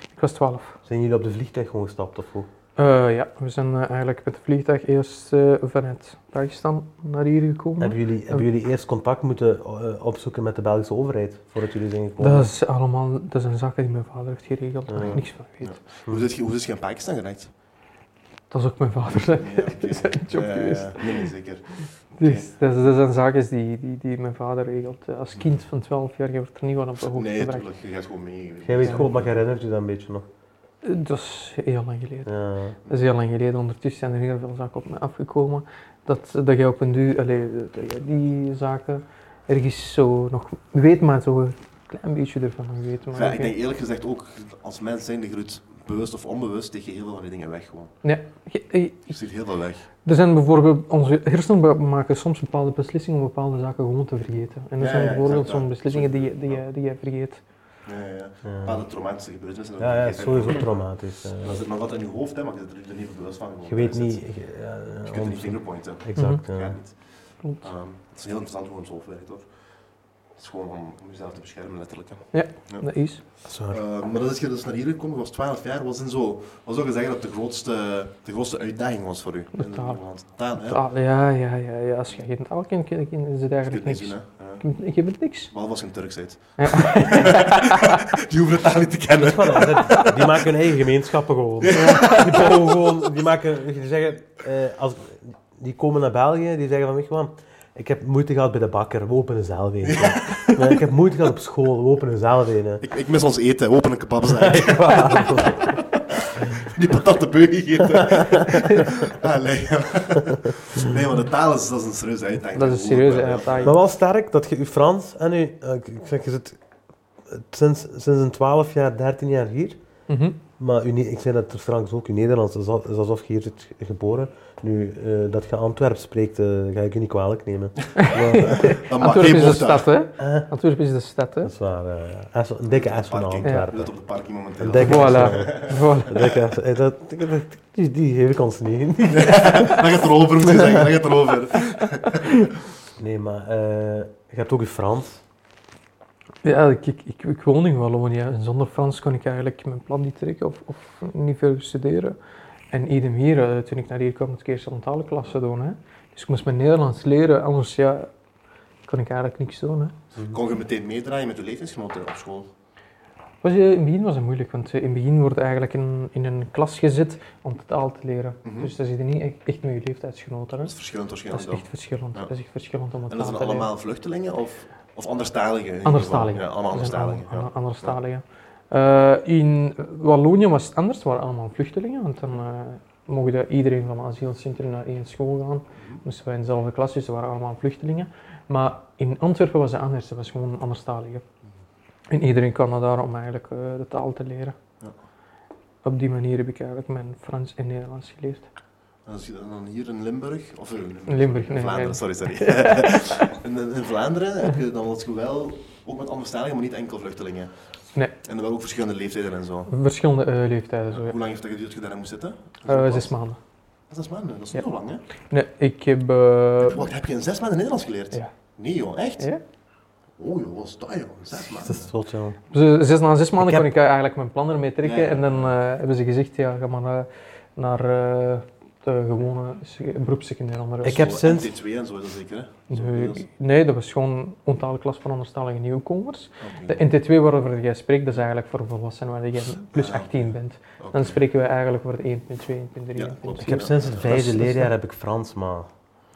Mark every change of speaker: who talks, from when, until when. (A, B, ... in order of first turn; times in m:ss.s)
0:00.2-0:00.8 A
0:00.8-0:02.5 B
0:02.8-0:08.4 A
0:07.8-0:12.5 B
0:12.2-0:15.8 A
0:14.9-0:15.2 B
0:15.0-0:17.5 C
0:18.5-0:21.3 A
0:19.4-0:22.5 C
0:22.2-0:27.7 A
0:27.1-0:29.4 C
0:28.6-0:30.2 B
0:30.8-0:32.3 A
0:32.2-0:32.8 B
0:32.8-0:43.5 A
0:43.1-0:47.9 C
0:48.0-0:49.2 A
0:49.1-0:49.9 C
0:50.0-0:57.4 A
0:54.8-0:56.6 C
0:57.8-1:00.7 C
0:58.4-0:58.8 B
0:59.8-1:01.6 B
1:01.4-1:04.2 C
1:03.7-1:06.8 B
1:05.0-1:09.5 C
1:06.2-1:06.4 A
1:07.4-1:07.7 A
1:10.4-1:12.8 C
1:12.3-1:13.2 A
1:13.4-1:13.8 B
1:13.7-1:20.8 C
1:19.5-1:20.0 A
1:20.6-1:25.5 A
1:23.7-1:24.6 C
1:25.5-1:30.1 C
1:26.6-1:28.0 A
1:29.2-1:42.8 B
1:31.6-1:32.6 C
1:31.7-1:32.6 A
1:39.8-1:40.8 C
1:42.8-1:53.7 C
1:44.3-1:45.7 B
1:52.5-1:53.7 A
1:53.6-1:56.6 B
1:57.3-1:59.8 B
2:00.1-2:00.4 A
2:00.6-2:08.7 B
2:08.0-2:11.5 A
2:08.4-2:09.9 C
2:10.2-2:10.5 B
2:11.4-2:13.9 B
2:12.7-2:16.1 C
2:13.4-2:13.7 A
2:14.6-2:19.8 B
2:14.7-2:16.2 A
2:19.1-2:22.5 C
2:23.0-2:25.2 B
2:26.4-2:32.2 A
2:32.7-2:38.1 A
2:38.8-2:40.0 A
2:40.2-2:42.5 C
2:43.4-2:50.7 A
2:48.4-2:48.7 C
2:50.6-2:52.3 C
2:51.3-2:53.7 A
2:53.1-2:58.0 C
2:55.8-3:11.2 A
3:12.1-3:14.6 A
3:15.8-3:18.4 A
3:19.0-3:27.5 C
3:21.1-3:23.3 A
3:28.2-3:29.7 C
3:29.7-3:31.2 A
3:30.9-3:33.1 C
3:32.6-3:33.4 A
3:33.9-3:35.0 C
3:35.3-3:36.9 A
3:36.6-3:39.3 C
3:40.2-3:41.9 C
3:41.3-3:42.4 B
3:42.5-3:51.1 A
3:43.4-3:43.7 B
3:44.8-3:45.5 C
3:50.8-3:51.5 B
3:50.8-3:53.2 C
3:52.7-4:04.7 A
3:56.4-3:56.8 C
3:59.7-4:01.2 C
4:02.9-4:04.2 C
4:03.4-4:05.7 B